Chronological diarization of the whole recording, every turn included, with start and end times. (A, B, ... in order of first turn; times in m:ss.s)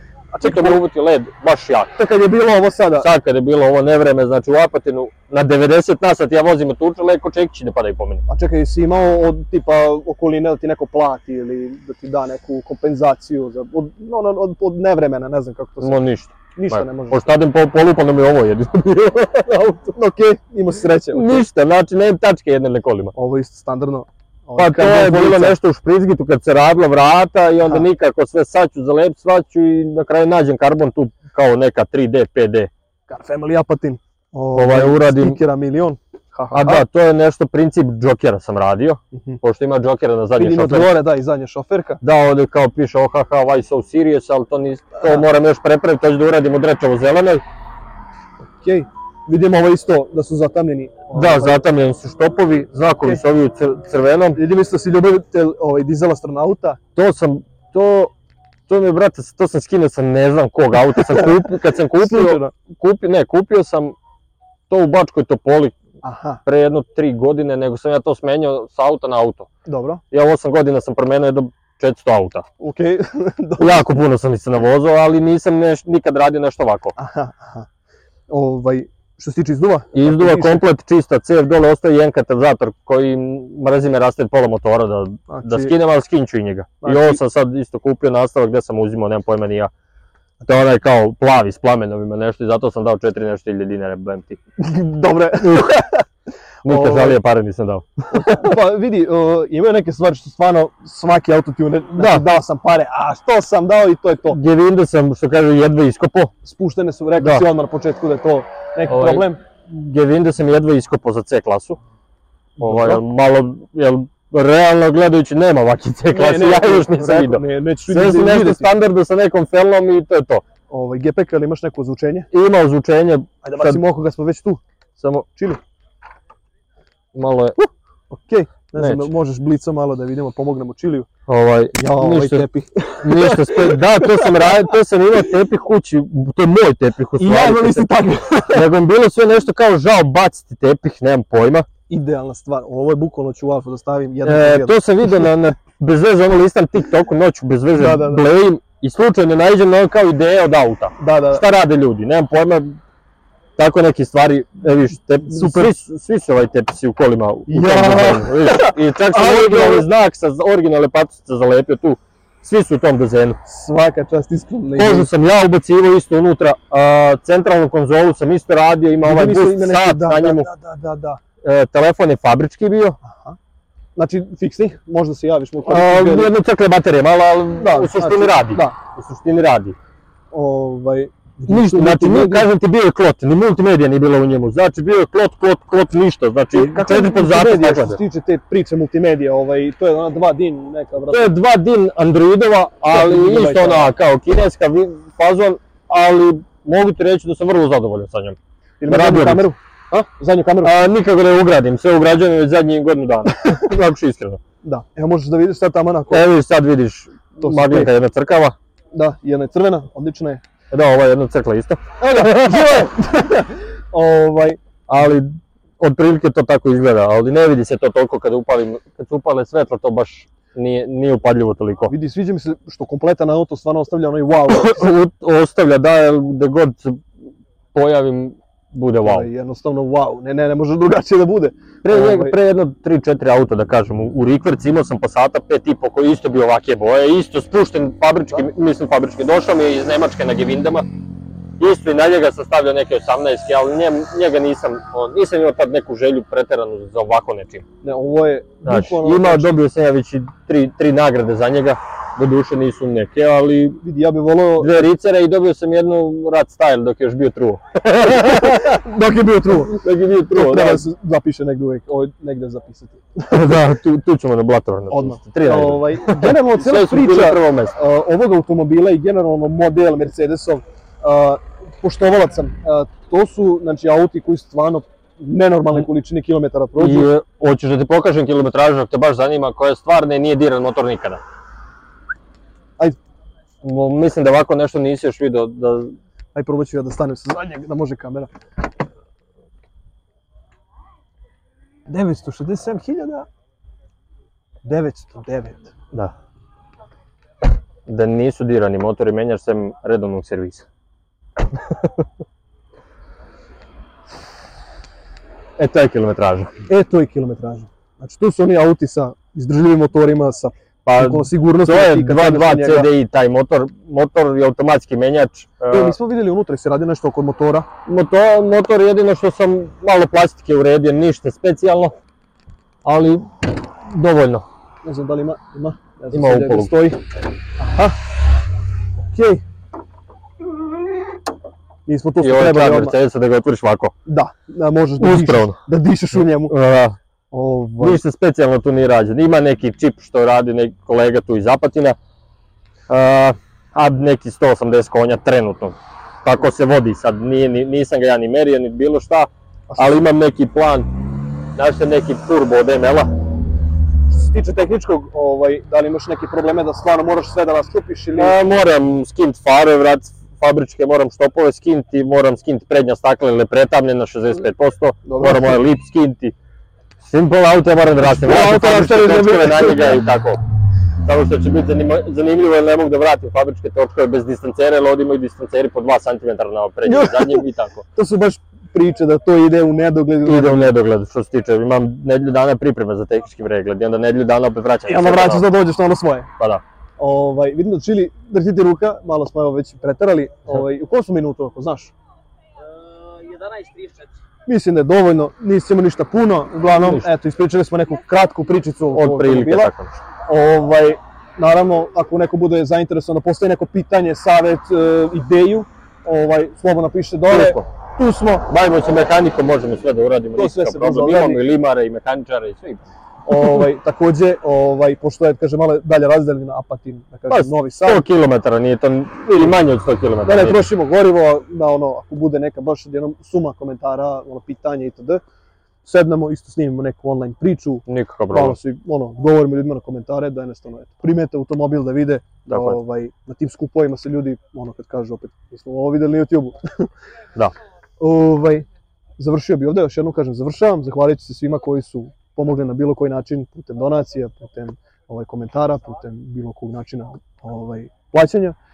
0:00.3-0:00.8 A
0:00.4-0:02.0 B
0:02.0-0:03.1 A
0:03.0-0:08.2 B
0:08.3-0:16.0 A
0:15.8-0:19.9 B
0:16.6-0:17.3 A
0:20.0-0:21.5 A
0:21.1-0:23.1 B
0:23.2-0:25.6 A
0:24.6-0:32.7 B
0:33.1-0:36.8 A
0:34.6-0:35.4 B
0:36.5-0:41.0 B
0:39.1-0:39.4 A
0:40.4-0:42.0 A
0:42.0-0:47.4 B
0:45.0-0:45.3 A
0:48.6-0:51.6 A
0:51.1-0:54.4 B
0:54.3-0:56.8 A
0:57.0-0:58.1 B
0:58.7-1:04.0 B
1:01.0-1:02.5 A
1:04.7-1:05.8 B
1:06.0-1:06.4 A
1:06.4-1:09.5 B
1:09.7-1:10.0 A
1:10.1-1:12.5 B
1:12.6-1:13.9 A
1:13.6-1:16.9 B
1:17.0-1:17.7 A
1:18.3-1:20.6 A
1:19.9-1:29.7 B
1:25.3-1:25.8 A
1:26.8-1:27.2 A
1:30.4-1:34.4 B
1:34.6-1:36.0 A
1:35.4-1:35.8 B
1:36.6-1:37.9 B
1:36.7-1:37.2 A
1:38.1-1:44.4 A
1:42.0-1:42.3 B
1:44.3-1:46.3 B
1:46.4-1:49.4 A
1:47.2-1:47.5 B
1:48.9-1:51.8 B
1:52.6-1:53.0 A
1:52.6-2:00.4 B
1:56.1-1:58.7 A
2:00.7-2:02.3 A
2:02.3-2:03.8 B
2:03.4-2:04.6 A
2:05.0-2:05.3 B
2:05.4-2:05.6 A
2:07.1-2:07.6 B
2:08.1-2:11.1 A
2:08.8-2:09.1 B
2:11.3-2:12.5 B
2:11.7-2:14.7 A
2:13.0-2:18.0 B
2:17.2-2:18.7 A
2:18.5-2:21.7 B
2:21.9-2:25.3 A
2:24.2-2:32.8 B
2:27.7-2:28.2 A
2:31.0-2:31.4 A
2:33.6-2:43.4 B
2:35.2-2:35.7 A
2:37.5-2:39.9 A
2:43.4-2:45.1 A
2:44.8-2:50.5 B
2:49.0-2:51.2 A
2:51.4-2:53.0 B
2:53.0-2:53.4 A
2:54.0-2:56.3 A
2:55.6-2:59.8 B
2:57.6-2:58.8 A
3:00.3-3:02.5 A
3:01.5-3:08.0 B
3:06.5-3:11.4 A
3:11.1-3:18.4 B
3:12.9-3:14.0 A
3:18.8-3:19.6 A
3:18.9-3:20.1 B
3:20.2-3:20.8 A
3:20.6-3:24.4 B
3:24.6-3:26.3 A
3:26.1-3:28.6 B
3:27.4-3:27.9 A
3:28.9-3:30.4 A
3:30.7-3:32.9 B
3:32.0-3:34.6 A
3:34.9-3:41.9 B
3:41.9-3:44.9 A
3:44.5-3:47.0 B
3:47.7-3:49.3 B
3:49.0-3:52.4 A
3:51.8-4:00.9 B
4:01.6-4:07.6 B
4:07.8-4:09.6 A
4:08.6-4:13.8 B
4:13.8-4:14.9 A
4:14.6-4:18.8 B
4:18.1-4:19.8 A
4:19.5-4:20.9 B
4:20.3-4:23.6 A
4:23.3-4:27.8 B
4:24.9-4:37.1 A
4:36.8-4:41.2 B
4:43.6-4:46.0 B
4:46.4-4:48.3 A
4:51.9-4:53.3 A
4:54.6-4:55.7 A
4:57.9-5:00.6 B
5:05.6-5:06.5 B
5:06.7-5:12.9 A
5:10.8-5:16.0 B
5:15.7-5:17.7 A
5:17.9-5:22.0 B
5:22.8-5:24.5 B
5:24.8-5:27.0 A
5:26.1-5:26.7 B
5:27.6-5:28.0 A
5:29.1-5:29.4 A
5:31.9-5:33.0 A
5:32.2-5:34.0 B
5:34.1-5:36.6 A
5:35.0-5:35.6 B
5:36.1-5:37.0 B
5:37.3-5:38.0 A
5:37.8-5:42.0 B
5:42.9-5:50.9 B
5:49.7-5:50.0 A
5:51.6-5:53.1 B
5:54.1-5:58.4 A
5:58.2-6:06.4 B
6:05.0-6:05.6 A
6:07.0-6:10.4 B
6:08.0-6:10.1 A
6:11.0-6:17.8 B
6:16.8-6:20.7 A
6:20.2-6:25.5 B
6:24.8-6:26.3 A
6:27.0-6:31.9 A
6:33.2-6:34.1 B
6:34.5-6:39.7 A
6:36.6-6:37.1 B
6:38.9-6:40.0 B
6:40.3-6:48.3 A
6:47.3-6:47.6 B
6:48.2-6:52.9 B
6:50.4-6:51.4 A
6:53.3-6:58.1 A
6:57.3-7:00.6 B
7:00.2-7:05.2 A
7:05.8-7:16.9 A
7:07.9-7:08.6 B
7:12.5-7:12.8 B
7:18.0-7:18.7 A
7:19.2-7:28.6 A